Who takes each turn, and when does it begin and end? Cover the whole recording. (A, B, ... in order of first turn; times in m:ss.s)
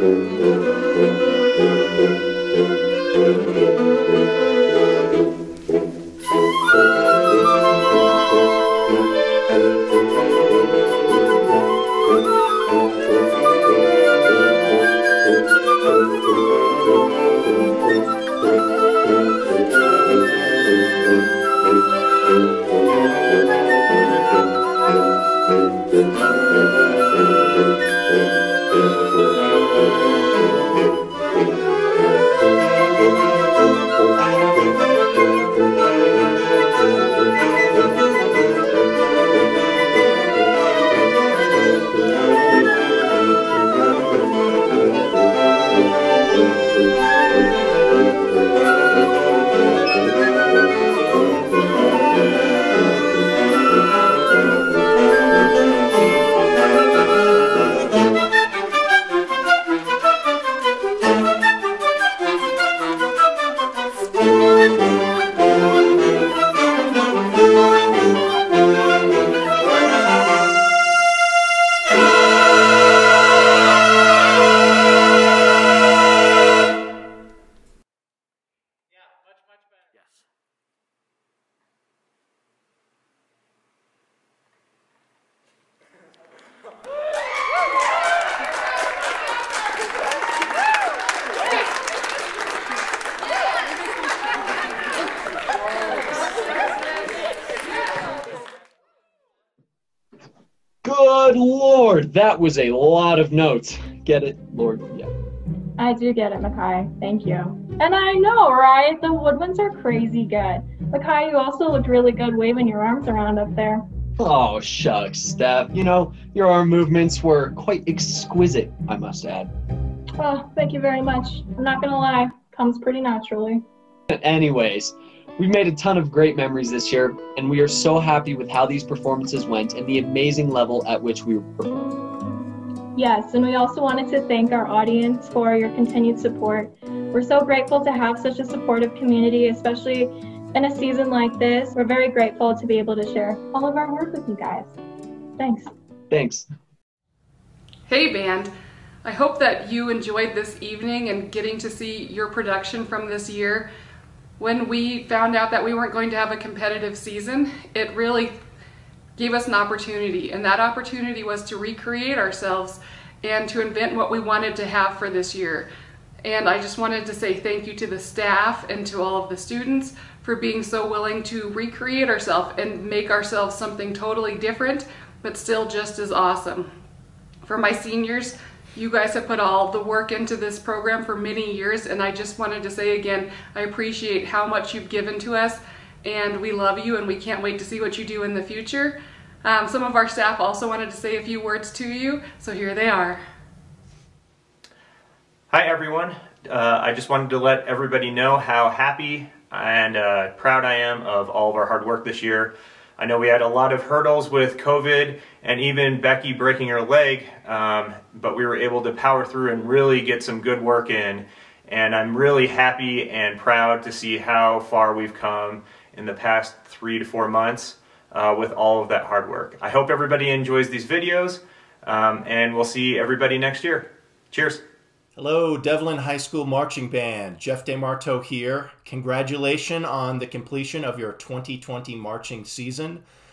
1:40.8-1:45.1 A
1:45.8-1:53.8 B
1:54.2-1:59.5 A
2:00.2-2:03.6 B
2:04.1-2:11.8 A
2:13.0-2:24.8 B
2:25.4-2:25.7 B
2:26.1-2:26.5 A
2:27.9-2:28.5 C
2:29.0-2:33.7 C
2:34.4-2:38.4 C
2:39.2-2:45.7 C
2:46.2-2:56.7 C
2:57.4-3:13.2 C
3:15.5-3:44.6 D
3:45.2-3:53.0 E